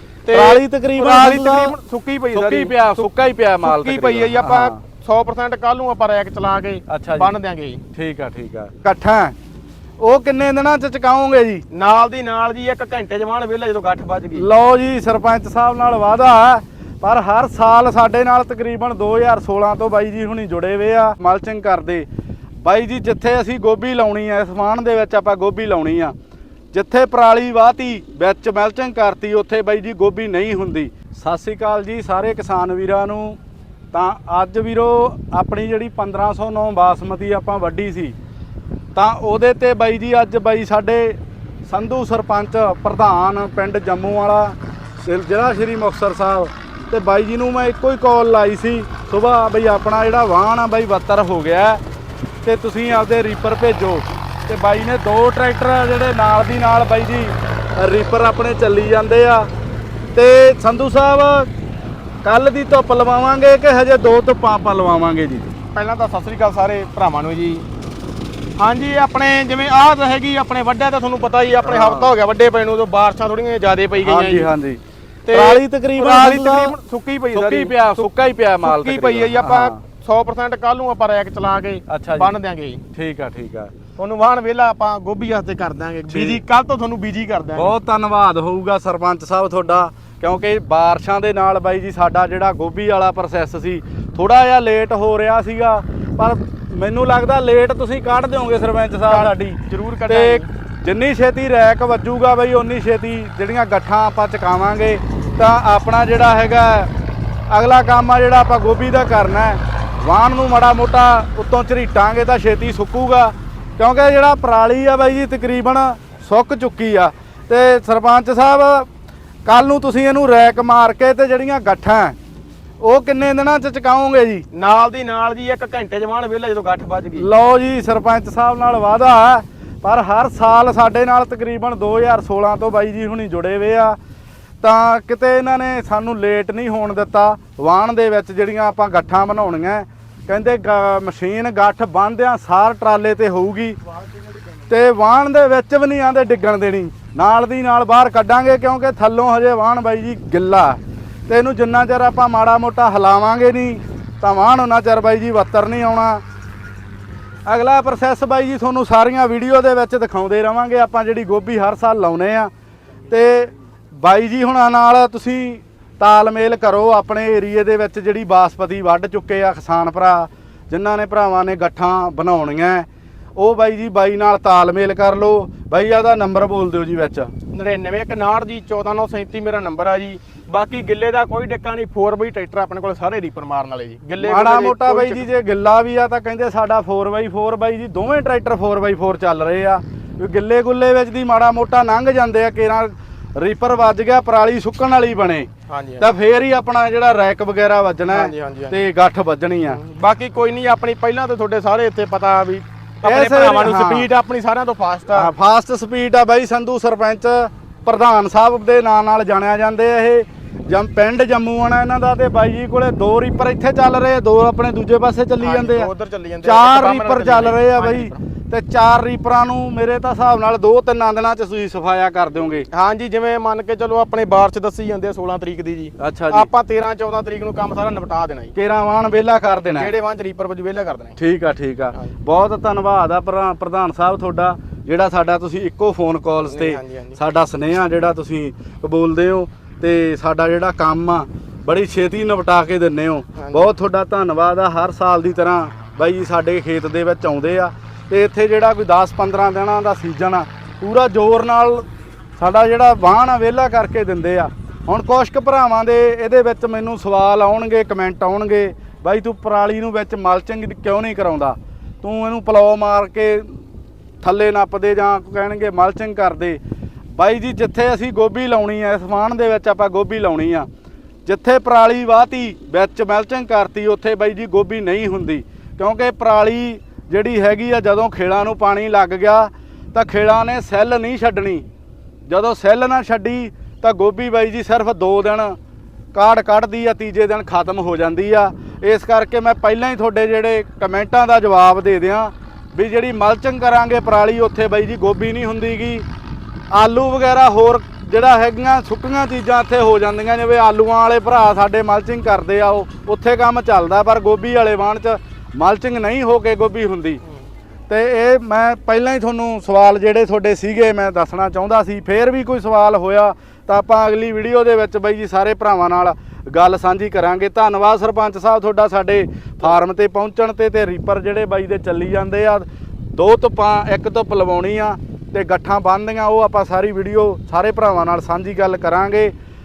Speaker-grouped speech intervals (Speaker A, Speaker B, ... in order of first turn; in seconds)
Speaker A: 0.3-3.1, 3.6-7.8, 11.7-14.4, 65.7-67.6, 68.6-74.5, 75.3-78.1, 78.6-82.8, 84.0-87.7, 99.1-100.5, 124.5-127.3, 177.5-185.2, 195.7-196.1, 198.1-198.8, 199.7-205.3, 215.4-218.2, 222.7-228.5, 229.7-231.2, 236.5-237.2, 243.4-243.7
Speaker B: 0.3-1.7, 2.3-4.8, 6.9-7.3, 7.9-9.3, 10.0-11.6, 14.3-22.1, 22.6-26.1, 26.7-33.4, 33.9-38.1, 38.9-51.8, 52.4-59.5, 60.1-61.5, 62.2-65.5, 71.6-72.1, 74.0-74.8, 75.3-76.7, 77.3-79.8, 81.9-82.3, 82.9-83.7, 86.1-86.4, 87.5-106.9, 107.5-118.9, 119.4-122.2, 122.8-124.4, 127.2-134.0, 134.6-143.8, 144.7-156.2, 157.5-162.5, 163.1-177.3, 184.2-195.5, 196.0-199.8, 203.0-204.1, 205.1-215.9, 216.4-222.7, 226.0-226.5, 228.5-229.9, 231.2-251.8, 252.4-263.5, 264.2-266.6, 267.1-270.7, 271.2-281.6, 282.3-285.6, 286.1-296.0, 296.7-307.2, 307.9-329.3